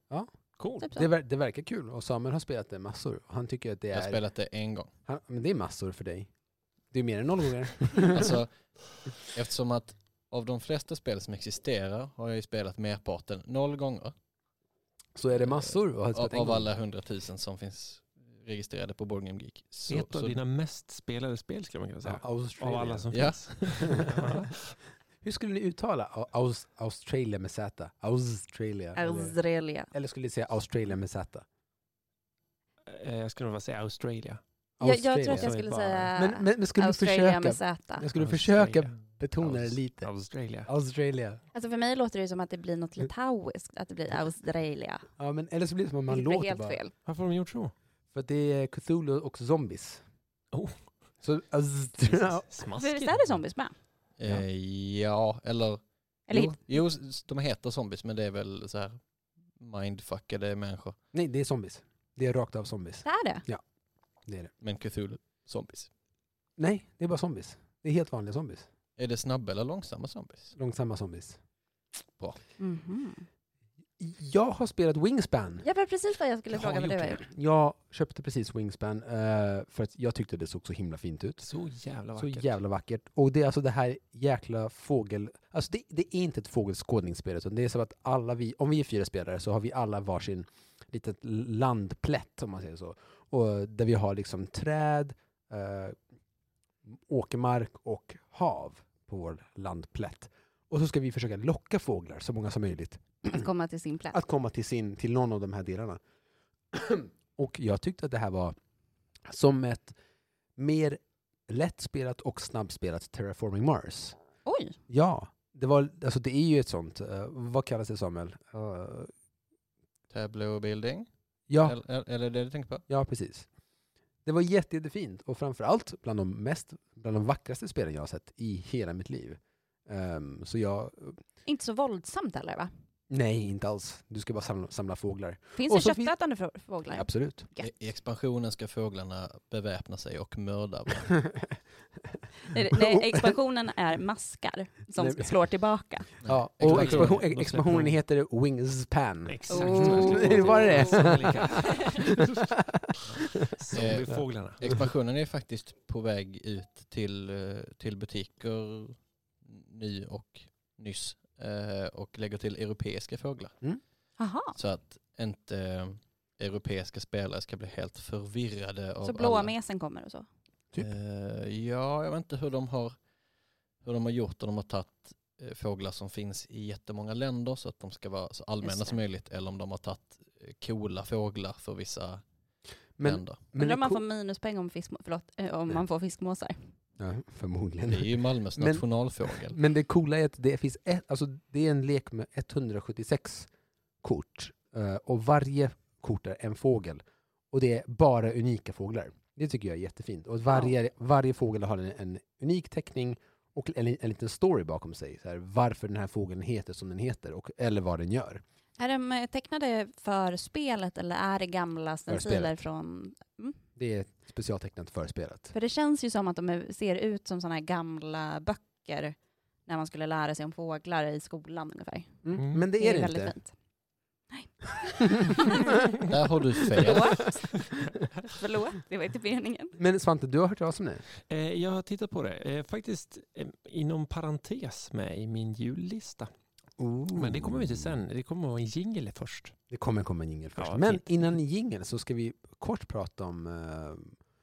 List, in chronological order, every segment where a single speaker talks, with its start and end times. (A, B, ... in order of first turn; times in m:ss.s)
0:00.6-0:00.9 A
0:00.8-0:01.1 B
0:00.8-0:04.2 C
0:03.9-0:04.9 D
0:05.0-0:06.3 C
0:06.9-0:08.4 C
0:08.1-0:08.5 D
0:09.2-0:14.1 D
0:15.2-0:16.7 C
0:16.1-0:20.4 D
0:19.9-0:24.7 A
0:22.0-0:23.1 C
0:23.1-0:24.0 D
0:23.8-0:24.4 C
0:25.2-0:29.4 C
0:29.0-0:29.9 B
0:29.9-0:31.4 C
0:32.8-0:34.4 A
0:34.8-0:35.5 C
0:34.8-0:38.1 B
0:35.3-0:36.1 A
0:36.2-0:40.1 C
0:38.1-0:40.7 A
0:40.6-0:41.4 C
0:41.5-0:45.1 B
0:45.2-0:46.8 C
0:46.1-0:46.9 B
0:47.0-0:47.7 A
0:48.1-0:50.0 C
0:50.5-0:50.8 A
0:51.2-0:52.5 C
0:52.1-0:53.4 A
0:52.8-0:53.7 B
0:54.2-0:59.0 D
0:56.3-0:56.6 B
0:59.6-1:01.0 D
1:01.1-1:03.6 C
1:03.0-1:03.4 B
1:04.2-1:04.5 C
1:04.6-1:05.9 D
1:06.6-1:08.7 C
1:09.0-1:10.5 D
1:10.5-1:11.4 C
1:12.6-1:13.2 B
1:14.0-1:15.6 C
1:15.6-1:17.2 B
1:16.6-1:21.5 C
1:21.4-1:22.5 A
1:22.2-1:36.0 C
1:36.8-1:43.4 C
1:43.2-1:44.2 B
1:44.1-1:46.0 C
1:46.7-1:48.5 C
1:49.2-1:50.0 C
1:50.6-1:54.2 C
1:54.4-1:54.8 B
1:54.9-1:59.1 C
2:00.1-2:01.1 D
2:01.5-2:01.8 C
2:01.6-2:02.8 D
2:02.9-2:03.5 C
2:04.2-2:11.2 C
2:11.4-2:12.7 B
2:13.1-2:16.1 C
2:15.6-2:17.7 B
2:16.9-2:17.5 C
2:17.6-2:21.2 D
2:22.4-2:26.1 B
2:22.7-2:23.4 C
2:25.0-2:25.3 C
2:26.2-2:27.2 D
2:26.2-2:33.7 C
2:26.6-2:28.0 A
2:29.3-2:32.5 A
2:29.5-2:31.0 B
2:33.1-2:34.6 A
2:33.7-2:43.5 D
2:44.2-2:44.5 B
2:44.5-2:49.5 D
2:49.0-2:50.2 B
2:50.8-2:52.9 D
2:53.8-3:02.2 D
2:58.6-2:59.0 B
3:03.0-3:04.0 C
3:03.0-3:03.4 D
3:03.6-3:06.6 B
3:07.0-3:13.5 C
3:07.9-3:09.6 D
3:14.0-3:28.4 C
3:28.8-3:33.6 B
3:32.1-3:32.6 C
3:33.8-3:35.5 C
3:35.5-3:43.5 B
3:42.2-3:43.4 C
3:42.4-3:42.6 A
3:44.3-3:45.7 B
3:45.0-3:45.7 C
3:46.0-3:47.3 D
3:46.8-3:47.5 B
3:46.8-3:47.0 C
3:48.2-3:49.8 B
3:49.8-3:51.0 C
3:51.3-3:56.3 A
3:56.8-3:58.0 C
3:57.1-3:59.5 A
3:59.7-4:04.1 C
4:00.6-4:01.0 A